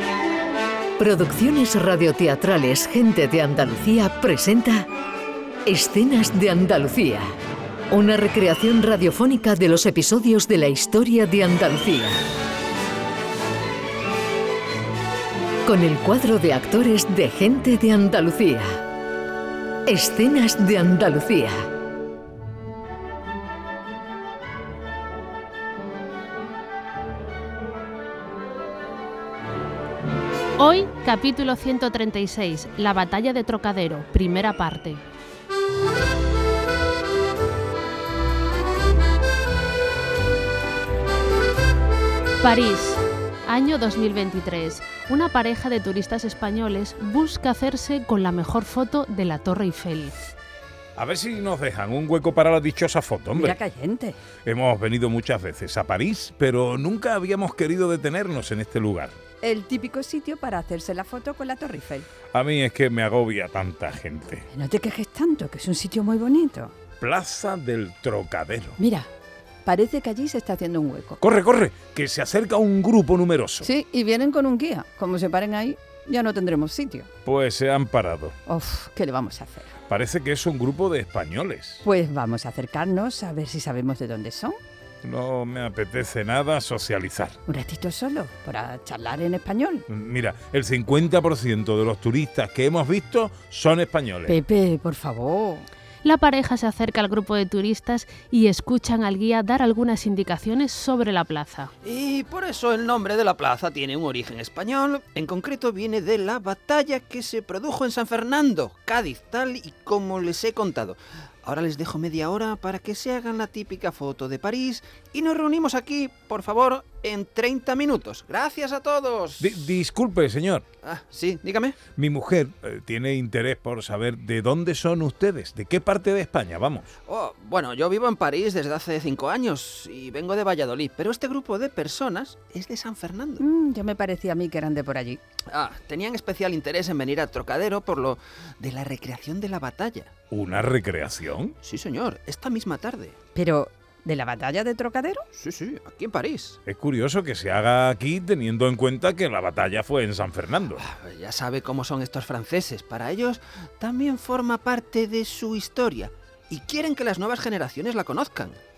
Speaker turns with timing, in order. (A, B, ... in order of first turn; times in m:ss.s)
0:01.0-0:04.9 A
0:05.6-0:07.2 A
0:07.9-0:12.2 A
0:15.6-0:18.8 A
0:19.8-0:21.6 A
0:30.6-0:35.0 B
0:42.4-0:50.1 B
0:51.0-0:53.6 C
0:53.3-0:54.2 D
0:54.4-0:59.2 C
0:59.4-1:02.1 D
1:02.3-1:04.5 C
1:04.5-1:06.7 D
1:07.0-1:08.8 C
1:08.8-1:09.1 D
1:09.6-1:11.2 D
1:11.2-1:13.7 C
1:13.6-1:17.1 D
1:17.2-1:18.4 C
1:18.4-1:19.7 D
1:19.9-1:21.8 C
1:21.8-1:24.6 D
1:25.0-1:27.4 C
1:27.5-1:29.8 D
1:29.9-1:34.4 C
1:34.3-1:35.6 D
1:36.0-1:41.7 B
1:41.8-1:59.6 E
1:59.4-2:00.6 C
2:00.8-2:01.8 E
2:02.0-2:06.9 C
2:07.1-2:13.4 E
2:13.4-2:15.2 D
2:15.5-2:20.1 E
2:20.3-2:21.5 C
2:21.6-2:23.2 E
2:23.3-2:25.2 D
2:25.3-2:26.6 E
2:26.6-2:30.8 C
2:30.8-2:38.6 E